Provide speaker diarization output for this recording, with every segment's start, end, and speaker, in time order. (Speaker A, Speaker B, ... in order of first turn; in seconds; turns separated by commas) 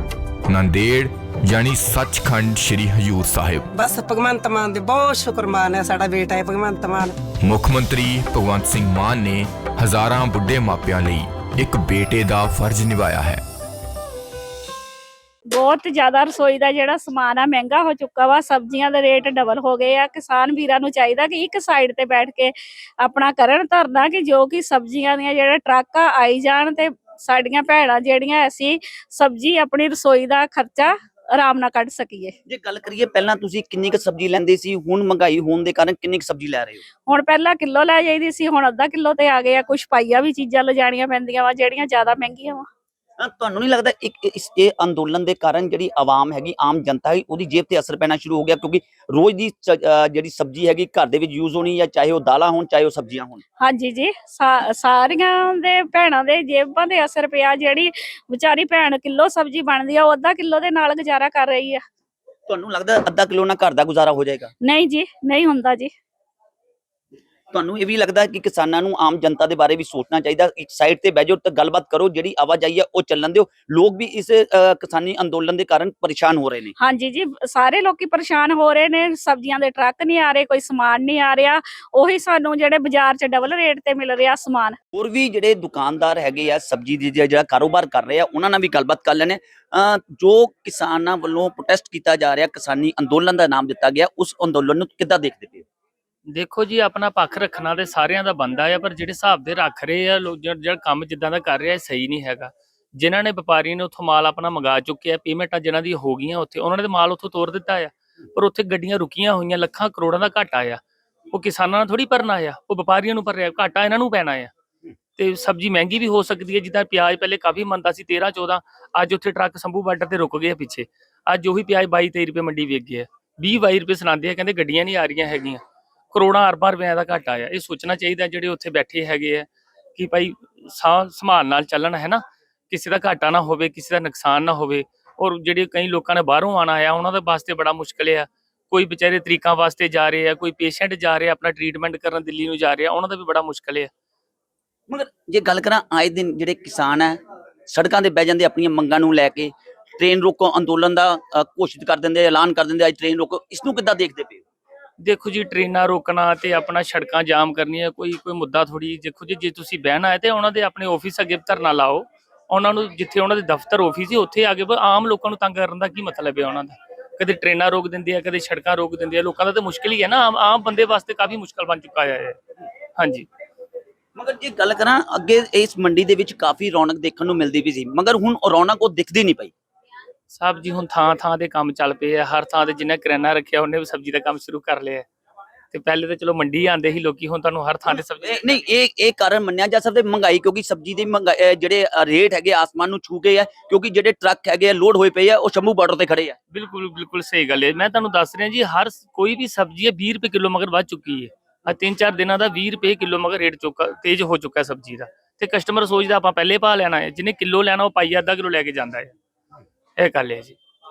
Speaker A: 0.5-3.6, Speaker B: 3.7-7.2, Speaker A: 7.4-13.4, Speaker C: 15.5-32.3, Speaker D: 32.5-36.8, Speaker C: 37.0-42.6, Speaker D: 43.2-53.4, Speaker C: 53.6-61.8, Speaker D: 62.5-64.5, Speaker C: 64.6-65.9, Speaker D: 67.5-76.7, Speaker C: 76.8-84.8, Speaker D: 84.9-95.6, Speaker E: 96.3-110.8, Speaker E: 111.3-114.5, Speaker E: 115.2-143.9, Speaker D: 144.9-154.4, Speaker E: 155.0-172.4, Speaker E: 173.0-173.3, Speaker D: 174.2-179.5, Speaker E: 180.3-185.1, Speaker E: 185.7-188.5, Speaker D: 188.2-196.4, Speaker E: 196.5-209.1, Speaker E: 210.0-210.6